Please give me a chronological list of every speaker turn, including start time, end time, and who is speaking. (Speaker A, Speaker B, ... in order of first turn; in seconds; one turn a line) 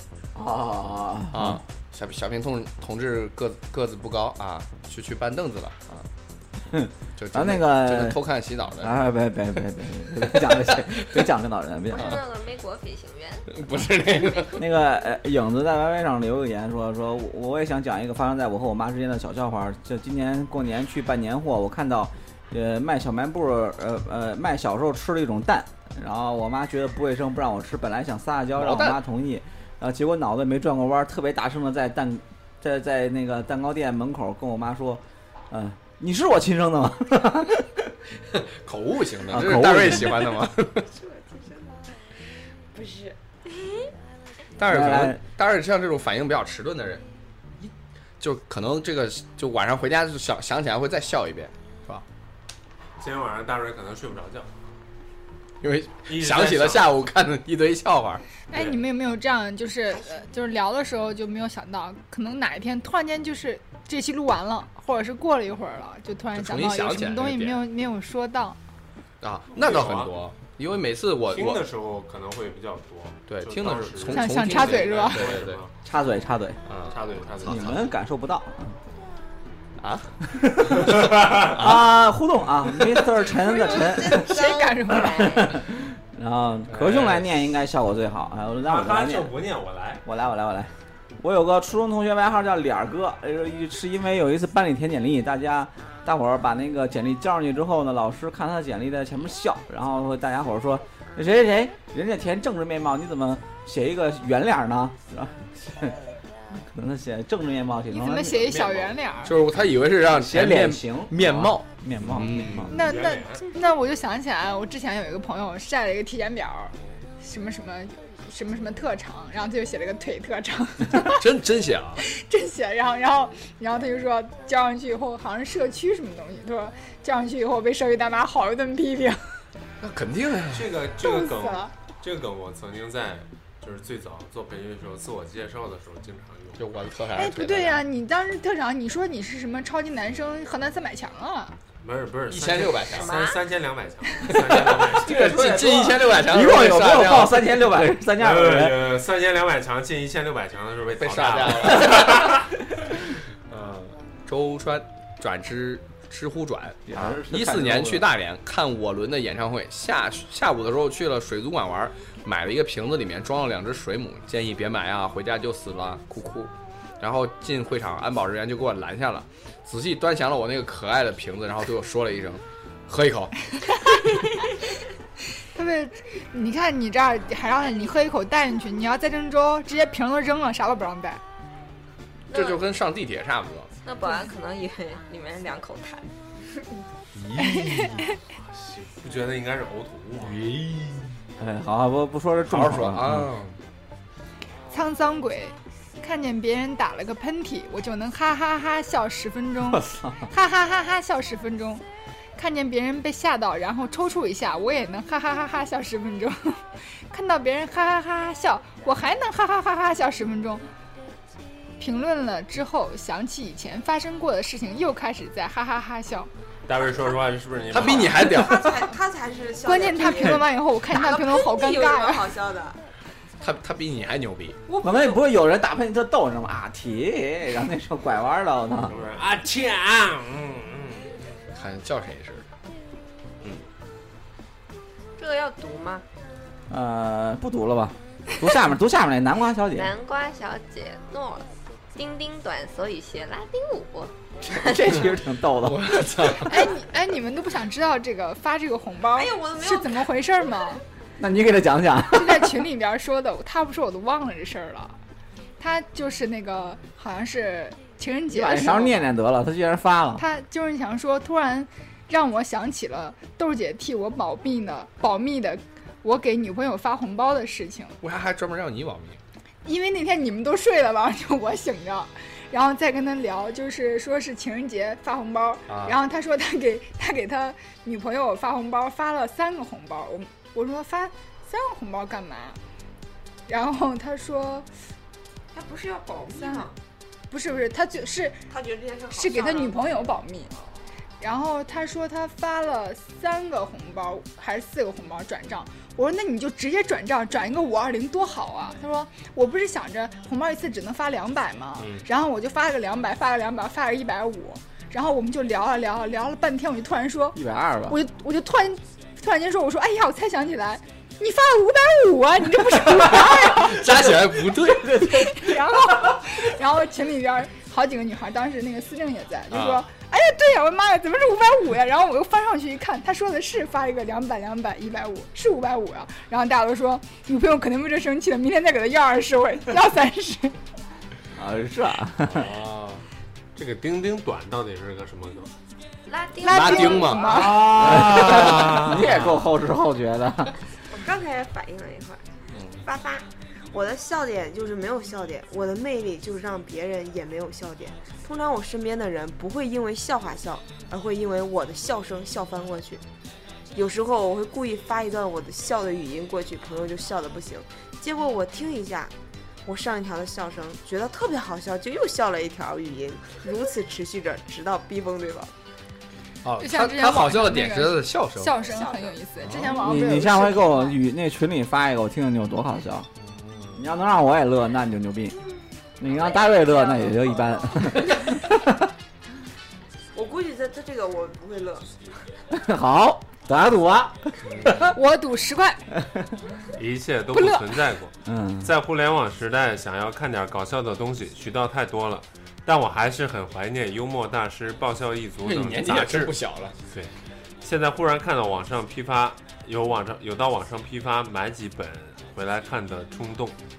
Speaker A: 0.3-1.6
Speaker B: 1.3-6.0
Speaker A: 6.7-8.2
Speaker B: 7.2-8.9
Speaker A: 8.8-12.2
Speaker C: 11.9-13.5
Speaker B: 13.5-14.6
Speaker A: 14.5-37.9
Speaker B: 28.6-29.0
Speaker B: 38.3-40.9
Speaker A: 39.3-40.4
Speaker D: 40.9-41.8
Speaker D: 42.7-43.2
Speaker B: 44.6-47.0
Speaker A: 44.7-45.2
Speaker B: 47.6-52.0
Speaker E: 53.0-54.5
Speaker B: 55.6-58.2
Speaker E: 56.1-56.9
Speaker F: 58.5-68.6
Speaker D: 59.9-60.2
Speaker B: 66.3-67.6
Speaker B: 69.2-71.6
Speaker E: 69.5-70.1
Speaker E: 71.3-75.7
Speaker B: 73.3-75.6
Speaker F: 74.1-75.2
Speaker A: 75.8-76.6
Speaker B: 76.7-77.7
Speaker E: 76.9-77.8
Speaker A: 77.4-78.8
Speaker B: 79.8-81.9
Speaker A: 80.3-84.4
Speaker E: 80.9-81.5
Speaker D: 83.5-84.6
Speaker F: 83.5-85.2
Speaker C: 84.3-85.6
Speaker A: 84.9-89.3
Speaker B: 86.7-87.1
Speaker E: 86.9-87.2
Speaker E: 88.6-90.0
Speaker A: 90.0-106.0
Speaker A: 106.6-108.7
Speaker F: 107.9-109.3
Speaker B: 109.2-112.7
Speaker A: 110.1-112.7
Speaker E: 112.7-113.4
Speaker F: 112.7-121.2
Speaker B: 120.9-122.0
Speaker F: 122.0-129.2
Speaker B: 129.8-130.7
Speaker E: 130.5-136.6
Speaker F: 131.0-131.7
Speaker B: 136.6-137.8
Speaker F: 137.2-141.6
Speaker E: 141.8-145.5
Speaker B: 142.3-143.1
Speaker C: 142.9-143.4
Speaker B: 144.3-147.5
Speaker A: 145.0-148.9
Speaker E: 147.8-152.4
Speaker B: 151.0-152.4
Speaker B: 153.5-173.5
Speaker A: 156.9-158.1
Speaker F: 175.4-181.2
Speaker C: 182.3-182.6
Speaker B: 182.3-183.7
Speaker C: 183.8-186.1
Speaker B: 187.1-188.0
Speaker F: 187.4-188.2
Speaker E: 188.4-190.4
Speaker B: 190.2-191.2
Speaker A: 191.4-193.3
Speaker B: 192.5-193.6
Speaker F: 194.7-201.8
Speaker A: 199.7-200.2
Speaker F: 202.4-210.6
Speaker F: 211.8-216.3
Speaker E: 216.7-218.4
Speaker B: 217.7-218.8
Speaker D: 218.2-222.8
Speaker F: 218.4-218.9
Speaker F: 219.6-222.3
Speaker B: 223.4-224.6
Speaker D: 224.7-225.2
Speaker A: 224.8-229.0
Speaker E: 228.9-231.2
Speaker B: 231.5-232.5
Speaker C: 235.2-236.0
Speaker A: 236.7-239.9
Speaker C: 239.7-245.0
Speaker A: 244.4-246.3
Speaker B: 245.6-246.7
Speaker F: 246.4-250.8
Speaker D: 249.1-250.1
Speaker A: 251.2-252.7
Speaker F: 252.1-255.0
Speaker F: 255.6-259.1
Speaker A: 258.3-260.2
Speaker F: 260.2-268.0
Speaker B: 268.0-269.2
Speaker F: 269.6-282.6
Speaker B: 275.7-276.0
Speaker F: 283.5-284.7
Speaker D: 285.5-286.7
Speaker F: 286.4-286.6
Speaker F: 287.3-288.4
Speaker D: 288.5-290.1
Speaker F: 289.1-290.5
Speaker F: 291.2-313.8
Speaker B: 301.8-302.0
Speaker A: 307.3-308.0
Speaker B: 313.2-315.1
Speaker A: 313.6-316.1
Speaker F: 315.0-330.6
Speaker B: 319.5-319.8
Speaker A: 331.4-332.5
Speaker B: 332.3-333.0
Speaker E: 333.6-335.5
Speaker C: 336.1-337.6
Speaker F: 336.4-337.8
Speaker B: 336.4-339.4
Speaker E: 337.5-339.1
Speaker A: 337.6-340.5
Speaker D: 340.9-342.2
Speaker B: 342.5-342.9
Speaker D: 342.8-353.0
Speaker D: 353.7-359.1
Speaker D: 359.6-365.5
Speaker B: 366.4-368.5
Speaker F: 366.6-371.0
Speaker D: 368.6-369.1
Speaker B: 369.4-369.8
Speaker A: 369.6-373.1
Speaker B: 373.2-373.8
Speaker A: 373.8-375.4
Speaker A: 376.0-378.9
Speaker C: 376.1-377.5
Speaker D: 380.1-381.9
Speaker A: 382.5-385.0
Speaker B: 384.4-384.9
Speaker F: 384.9-385.9
Speaker E: 386.7-396.3
Speaker F: 387.3-387.8
Speaker A: 388.2-388.7
Speaker B: 395.4-396.8
Speaker E: 396.9-403.6